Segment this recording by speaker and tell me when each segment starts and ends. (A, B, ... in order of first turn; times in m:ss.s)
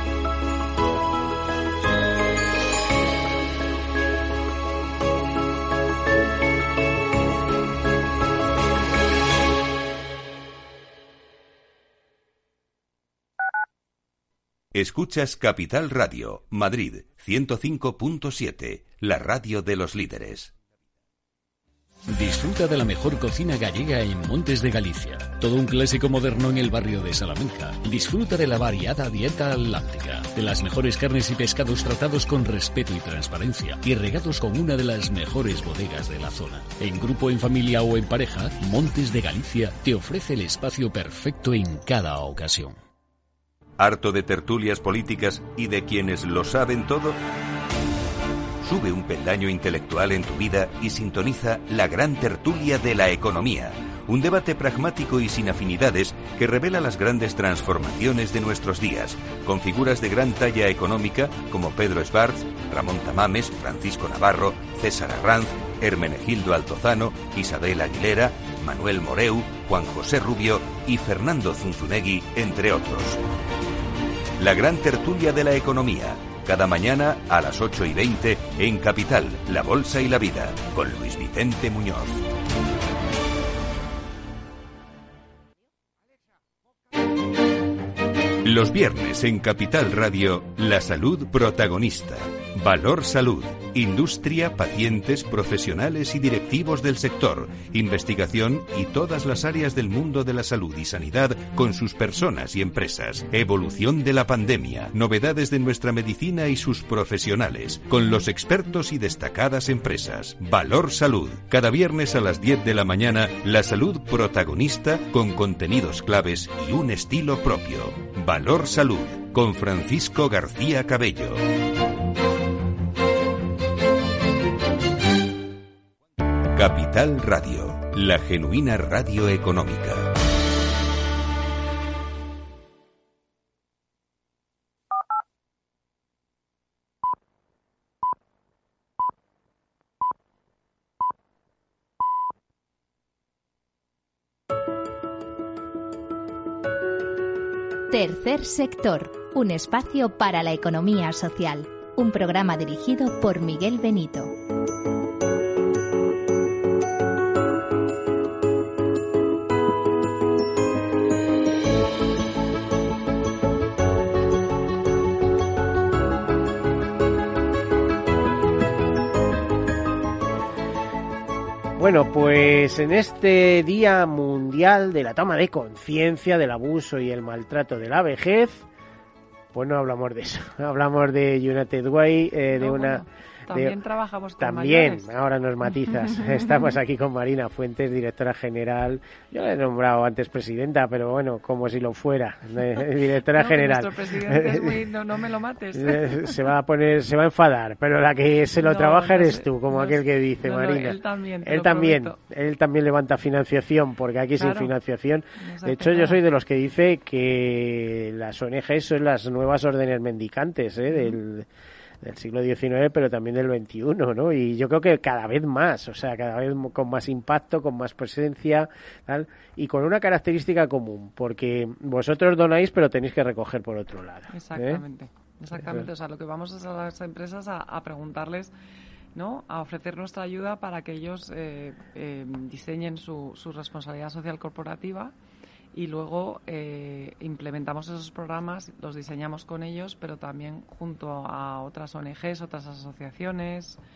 0:14.7-0:20.5 A
0:22.1-0:42.8 B
0:43.8-0:47.2 A
0:48.6-1:13.2 A
1:14.4-1:22.2 A
1:28.4-2:01.4 A
2:06.5-2:10.1 A
2:27.9-2:34.3 C
2:51.8-2:58.7 D
2:59.5-3:03.8 D
3:02.5-3:05.1 E
3:04.4-3:14.8 D
3:05.7-3:06.7 E
3:13.3-3:16.5 E
3:15.7-3:31.5 D
3:18.6-3:22.2 E
3:24.4-3:24.7 E
3:25.4-3:26.2 E
3:30.9-3:31.2 E
3:32.0-3:44.8 D
3:44.3-3:48.5 E
3:45.5-3:45.9 D
3:49.2-3:55.1 E
3:55.7-4:03.8 E